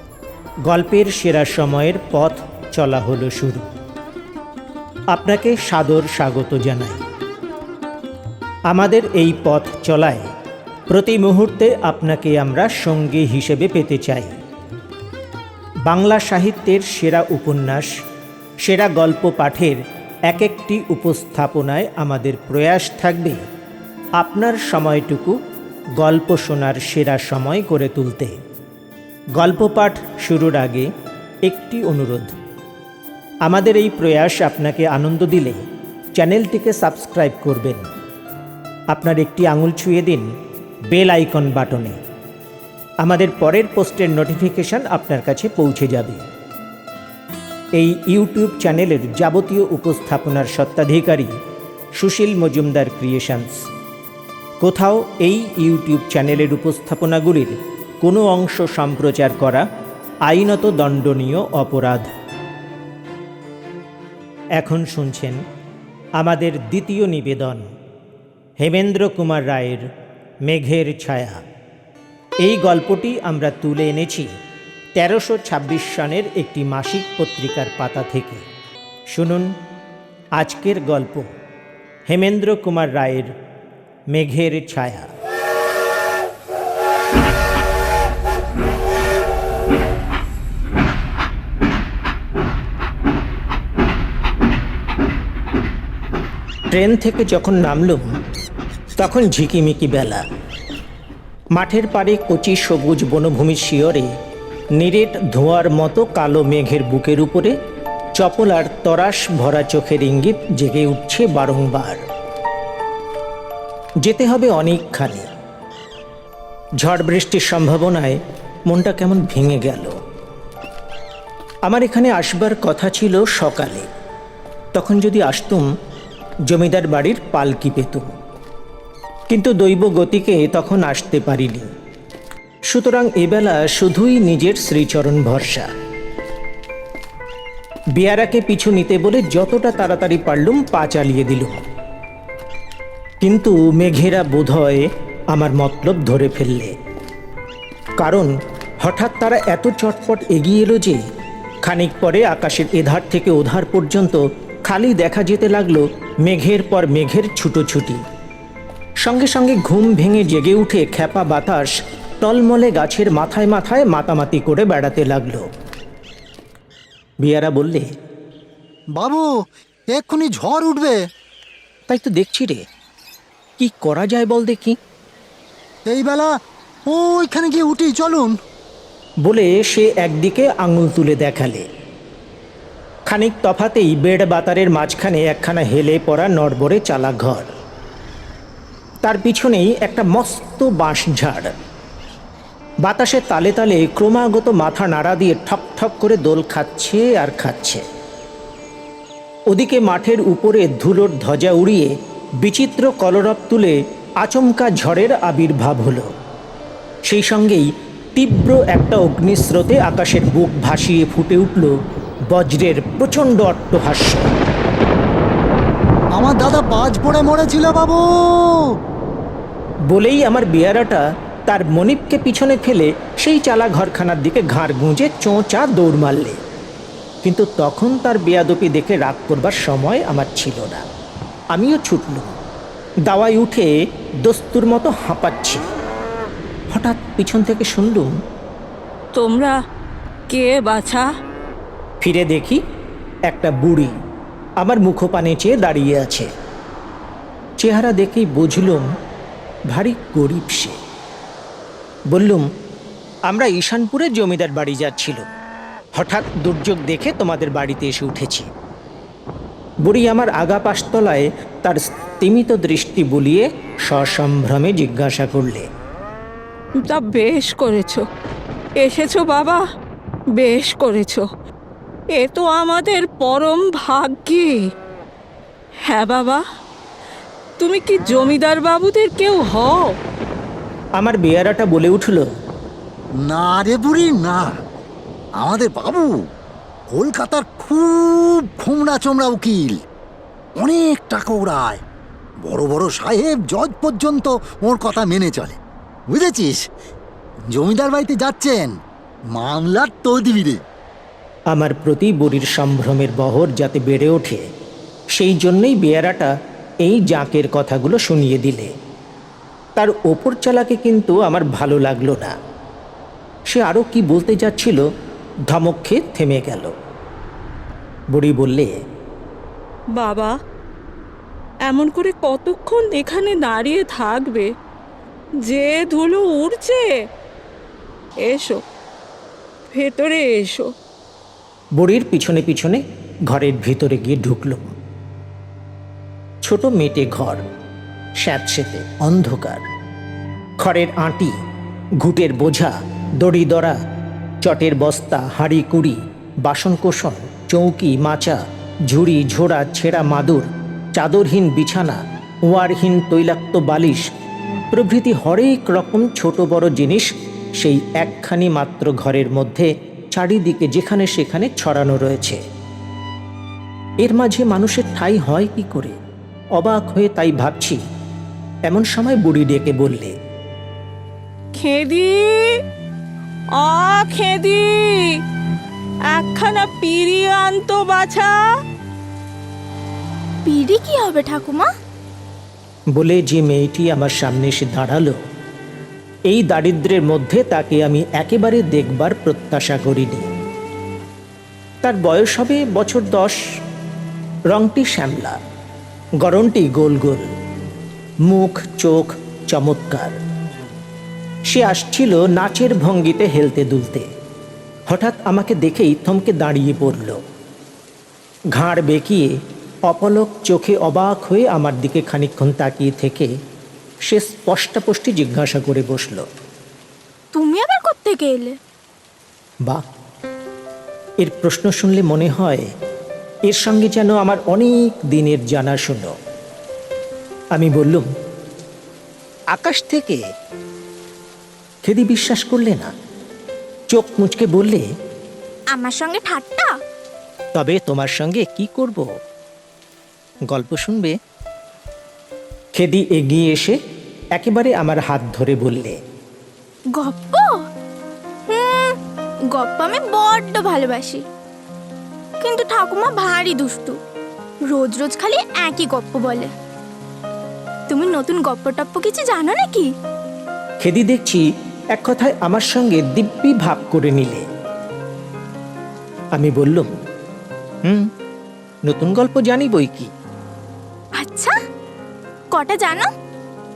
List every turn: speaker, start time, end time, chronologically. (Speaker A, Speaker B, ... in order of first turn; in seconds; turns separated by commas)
Speaker A: 0.7-3.7, Speaker A: 5.1-7.0, Speaker A: 8.7-10.3, Speaker A: 10.9-14.4, Speaker A: 15.9-17.9, Speaker A: 18.6-23.4, Speaker A: 24.2-25.4, Speaker A: 26.0-28.3, Speaker A: 29.4-30.9, Speaker A: 31.5-32.4, Speaker A: 33.5-35.6, Speaker A: 36.2-37.8, Speaker A: 38.9-40.3, Speaker A: 40.9-42.0, Speaker A: 43.0-46.2, Speaker A: 47.8-51.3, Speaker A: 52.0-53.7, Speaker A: 54.6-59.6, Speaker A: 60.3-62.1, Speaker A: 64.6-65.4, Speaker A: 66.2-67.7, Speaker A: 68.6-69.8, Speaker A: 70.5-71.4, Speaker A: 72.4-74.3, Speaker A: 75.0-78.5, Speaker A: 79.1-79.5, Speaker A: 80.4-81.3, Speaker A: 82.1-83.3, Speaker A: 84.1-85.1, Speaker A: 96.7-98.0, Speaker A: 99.0-100.2, Speaker A: 101.5-104.1, Speaker A: 104.8-107.5, Speaker A: 108.2-112.0, Speaker A: 114.0-115.3, Speaker A: 116.8-120.0, Speaker A: 121.7-123.9, Speaker A: 124.7-125.7, Speaker A: 126.5-128.1, Speaker A: 129.3-131.7, Speaker A: 132.7-135.7, Speaker A: 138.0-141.6, Speaker A: 143.2-146.7, Speaker A: 148.0-151.0, Speaker A: 151.6-158.0, Speaker A: 159.0-161.7, Speaker A: 162.2-165.5, Speaker A: 167.2-167.9, Speaker B: 169.0-169.3, Speaker B: 169.9-171.0, Speaker A: 171.9-172.6, Speaker A: 173.6-174.8, Speaker B: 175.9-176.3, Speaker B: 176.9-178.4, Speaker A: 179.2-181.7, Speaker A: 183.1-187.5, Speaker A: 189.1-191.6, Speaker A: 192.8-197.8, Speaker A: 199.5-206.1, Speaker A: 207.1-211.7, Speaker A: 212.3-214.3, Speaker B: 216.1-218.7, Speaker A: 219.9-226.4, Speaker A: 227.2-230.9, Speaker A: 231.5-232.3, Speaker A: 233.1-233.7, Speaker A: 234.2-235.7, Speaker A: 236.7-238.1, Speaker C: 239.2-239.5, Speaker C: 240.3-241.1, Speaker A: 242.0-242.6, Speaker A: 243.3-243.9, Speaker A: 244.6-246.3, Speaker A: 247.6-248.9, Speaker A: 249.7-250.8, Speaker A: 252.1-252.4, Speaker A: 253.3-255.3, Speaker A: 256.0-258.5, Speaker A: 259.8-265.7, Speaker C: 266.8-268.0, Speaker C: 268.8-269.6, Speaker C: 270.4-271.2, Speaker C: 272.1-274.6, Speaker C: 275.9-276.4, Speaker C: 277.6-279.9, Speaker A: 281.0-282.3, Speaker B: 283.2-284.5, Speaker B: 285.4-286.1, Speaker B: 286.9-289.8, Speaker B: 290.6-291.8, Speaker B: 292.4-295.6, Speaker B: 296.1-296.6, Speaker B: 297.5-298.7, Speaker B: 299.3-300.6, Speaker A: 301.5-304.4, Speaker A: 305.1-306.3, Speaker A: 306.8-308.7, Speaker A: 309.8-312.3, Speaker A: 313.5-314.8, Speaker A: 315.5-316.7, Speaker A: 318.1-318.7, Speaker C: 319.9-320.3, Speaker C: 321.7-324.5, Speaker C: 325.4-326.9, Speaker C: 328.2-328.6, Speaker C: 329.7-330.7, Speaker A: 331.8-334.7, Speaker A: 336.4-337.4, Speaker A: 338.2-339.6, Speaker A: 340.6-341.3, Speaker A: 342.0-343.8, Speaker A: 344.4-354.1, Speaker A: 354.7-362.4, Speaker A: 364.0-365.9, Speaker A: 366.6-367.8, Speaker A: 368.7-370.1, Speaker C: 371.6-372.6, Speaker C: 373.6-375.2, Speaker C: 376.1-378.3, Speaker D: 380.4-381.7, Speaker A: 382.9-385.2, Speaker A: 386.3-390.3, Speaker A: 391.8-393.4, Speaker A: 394.5-395.4, Speaker A: 396.2-397.3, Speaker A: 398.3-400.1, Speaker A: 401.5-404.1, Speaker A: 404.9-407.2, Speaker A: 408.5-409.3, Speaker A: 409.9-413.3, Speaker A: 414.1-416.3, Speaker D: 417.3-418.6, Speaker A: 421.2-422.7, Speaker A: 423.5-426.1, Speaker A: 427.5-428.1, Speaker A: 429.5-430.2, Speaker A: 431.8-432.9, Speaker A: 433.9-434.8, Speaker D: 435.7-436.7, Speaker A: 437.6-439.0, Speaker A: 440.5-441.1, Speaker A: 442.8-443.8, Speaker A: 444.4-446.0, Speaker D: 447.0-447.6, Speaker D: 448.5-449.0, Speaker D: 449.5-451.2, Speaker D: 452.4-454.0, Speaker D: 454.7-456.5, Speaker D: 457.9-459.9, Speaker A: 460.8-464.4, Speaker A: 466.4-466.9, Speaker A: 468.9-470.1, Speaker D: 471.2-471.5, Speaker D: 472.5-473.1